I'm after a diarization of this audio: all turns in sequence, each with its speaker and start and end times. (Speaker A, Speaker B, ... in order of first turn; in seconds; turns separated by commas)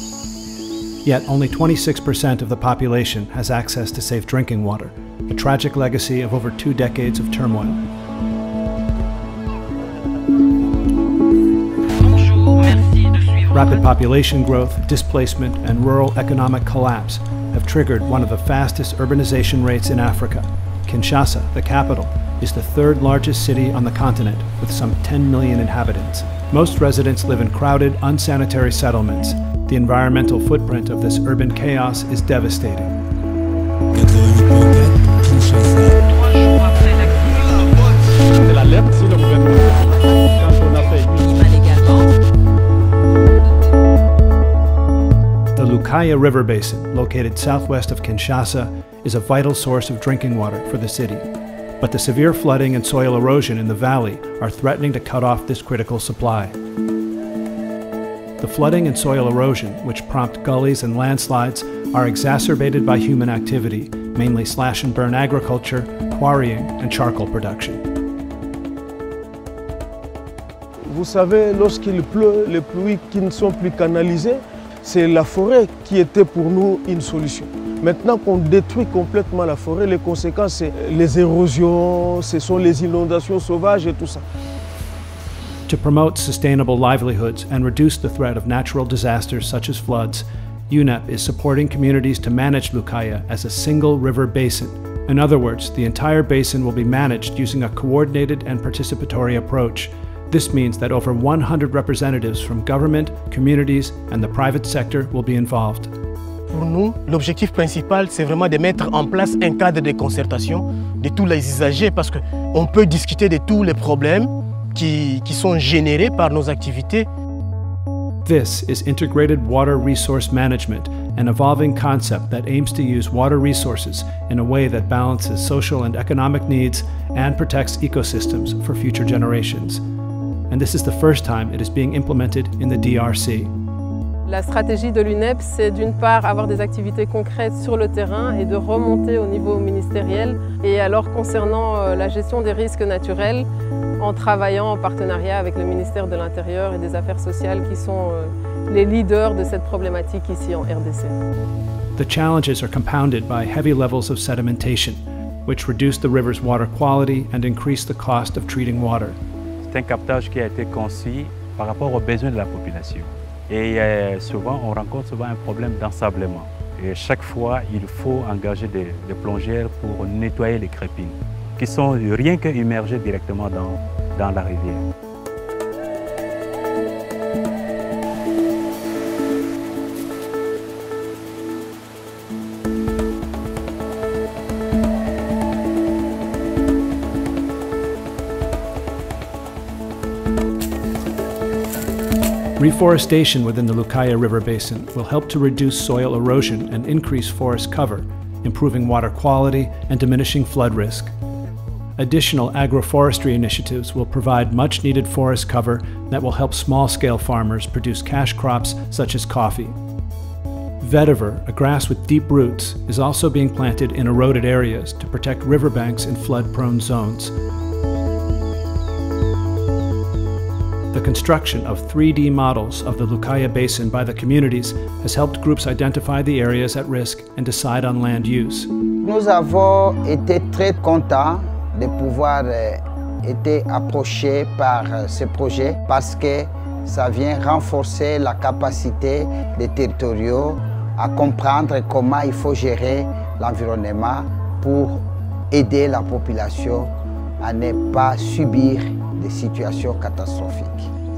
Speaker A: 1.0-7.8, Speaker A: 13.5-33.0, Speaker A: 45.5-51.2, Speaker A: 51.8-56.5, Speaker A: 58.4-67.8, Speaker B: 70.8-84.2, Speaker A: 85.7-105.9, Speaker C: 106.5-117.1, Speaker A: 118.2-129.8, Speaker A: 130.5-133.5, Speaker D: 134.2-143.5, Speaker D: 144.0-151.2, Speaker A: 151.9-159.2, Speaker E: 159.6-174.8, Speaker A: 192.6-201.1, Speaker A: 202.0-209.8, Speaker A: 210.8-217.3, Speaker A: 220.9-228.7, Speaker F: 229.0-246.9, Speaker F: 247.4-250.9